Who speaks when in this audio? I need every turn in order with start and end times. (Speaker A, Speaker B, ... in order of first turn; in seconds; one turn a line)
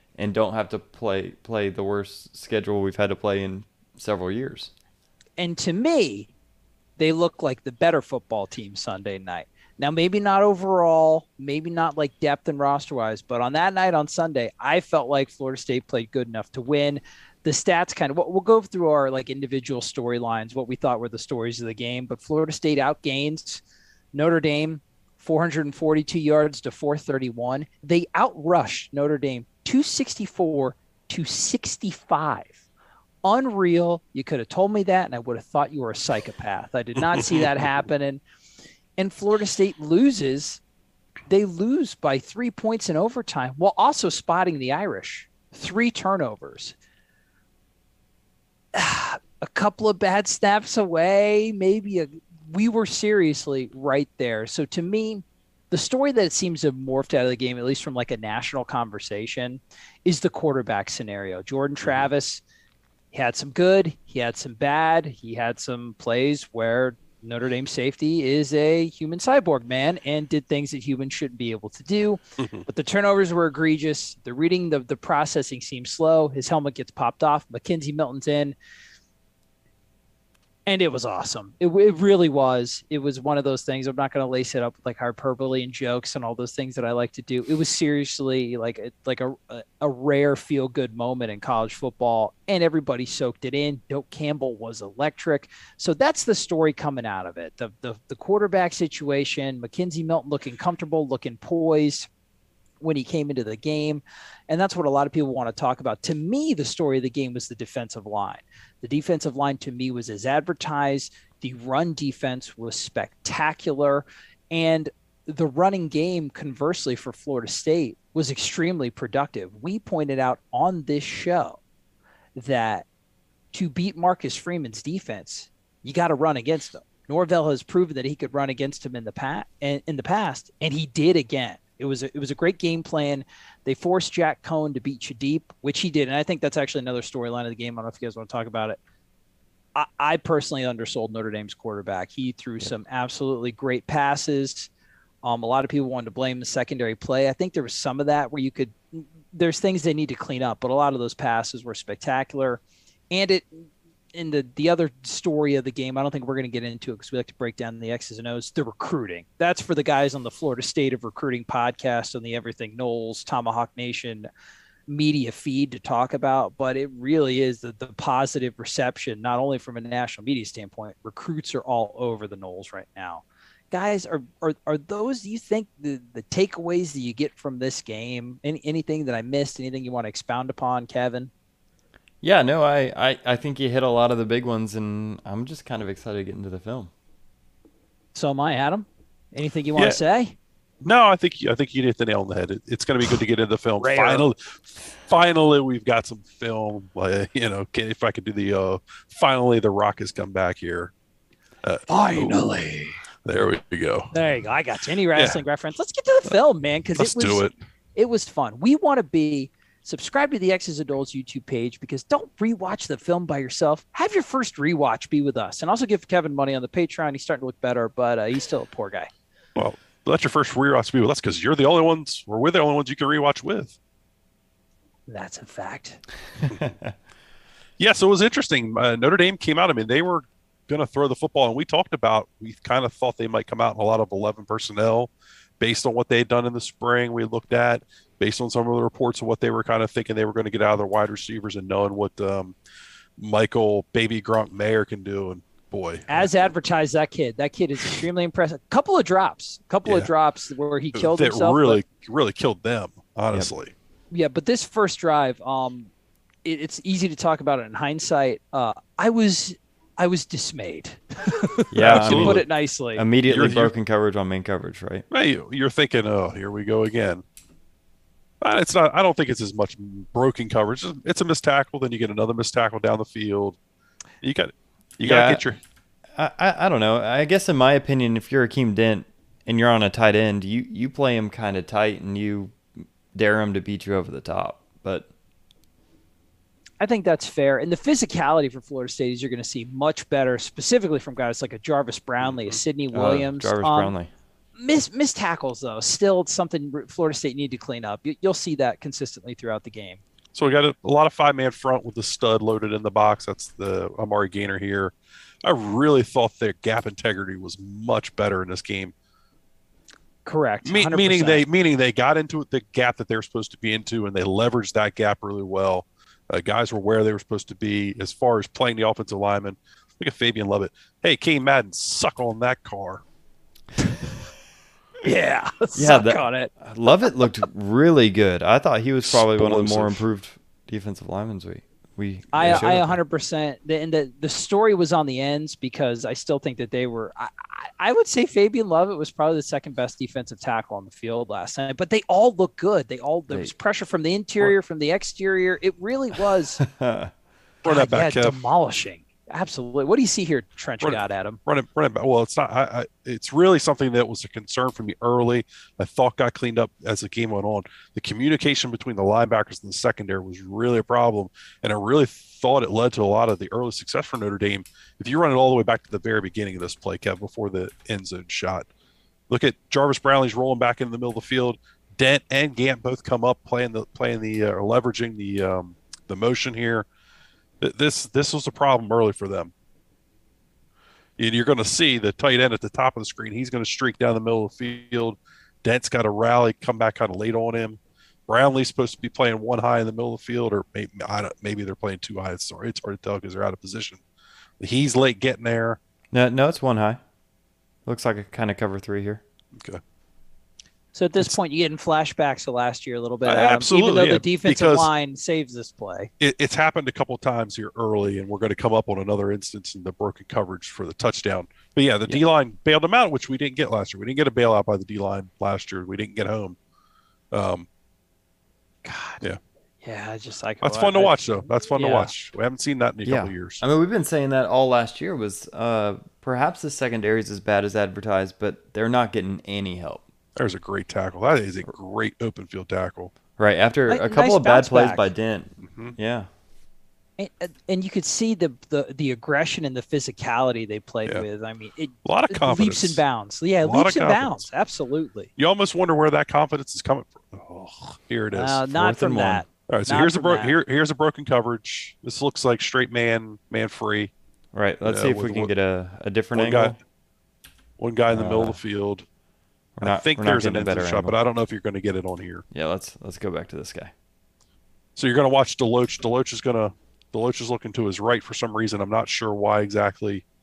Speaker A: 0.1-4.7
Speaker B: 5.4-6.3
Speaker B: 7.0-23.6
Speaker B: 24.1-32.6
Speaker B: 33.2-38.2
Speaker B: 39.0-40.6
Speaker B: 41.3-46.7
Speaker B: 48.7-62.4
Speaker B: 63.1-78.5
Speaker C: 72.4-72.7
Speaker B: 80.7-102.1
Speaker B: 102.8-121.6
Speaker B: 122.3-122.8
Speaker B: 123.5-138.8
Speaker B: 139.7-144.7
Speaker B: 145.2-164.3
Speaker B: 164.9-181.3
Speaker A: 182.2-186.9
Speaker B: 188.1-190.3
Speaker C: 190.8-200.9
Speaker B: 193.8-194.3
Speaker C: 201.6-202.5
Speaker B: 201.9-203.0
Speaker C: 203.2-204.1
Speaker B: 204.1-219.1
Speaker C: 205.1-205.4
Speaker C: 206.9-207.5
Speaker C: 219.6-223.8
Speaker B: 225.1-226.0
Speaker A: 226.5-226.9
Speaker C: 227.8-242.6
Speaker C: 243.2-246.3
Speaker B: 246.1-251.8
Speaker C: 249.8-250.1
Speaker C: 250.9-253.7
Speaker B: 254.1-255.9
Speaker B: 256.4-263.0
Speaker A: 261.7-265.0
Speaker C: 261.7-262.4
Speaker C: 263.3-263.7
Speaker C: 265.1-267.2
Speaker C: 268.4-273.6
Speaker C: 274.2-275.6
Speaker A: 275.0-275.4
Speaker A: 276.1-285.1
Speaker B: 286.8-293.9
Speaker C: 292.2-292.6
Speaker A: 292.9-294.1
Speaker B: 294.6-300.0
Speaker C: 300.3-308.9
Speaker B: 310.2-311.4
Speaker C: 310.6-323.0
Speaker B: 325.0-326.5
Speaker A: 325.7-333.0
Speaker C: 329.0-330.0
Speaker B: 332.3-346.6
Speaker A: 346.6-347.1
Speaker C: 347.6-348.4
Speaker B: 347.6-351.4
Speaker C: 350.8-368.7
Speaker C: 369.3-376.9
Speaker C: 377.6-379.5
Speaker C: 381.2-394.0
Speaker C: 394.6-395.8
Speaker A: 396.1-397.0
Speaker A: 397.9-399.2
Speaker B: 400.9-406.1
Speaker C: 403.2-404.9
Speaker C: 406.2-416.6
Speaker C: 417.3-417.7
Speaker B: 418.8-419.2
Speaker B: 419.8-422.1
Speaker C: 420.6-423.6
Speaker A: 423.0-430.0
Speaker C: 430.4-433.1
Speaker A: 433.4-436.3
Speaker B: 433.9-435.1
Speaker C: 435.6-435.9
Speaker B: 437.2-445.3
Speaker C: 442.0-443.0
Speaker C: 443.6-444.4
Speaker C: 445.4-448.6
Speaker B: 448.3-450.6
Speaker A: 448.7-449.4
Speaker C: 449.7-454.1
Speaker A: 454.5-456.8
Speaker C: 454.8-455.5
Speaker C: 456.3-456.8
Speaker C: 457.8-459.0
Speaker A: 458.1-458.6
Speaker A: 459.8-461.1
Speaker C: 459.8-462.4
Speaker A: 462.5-463.9
Speaker C: 464.9-470.2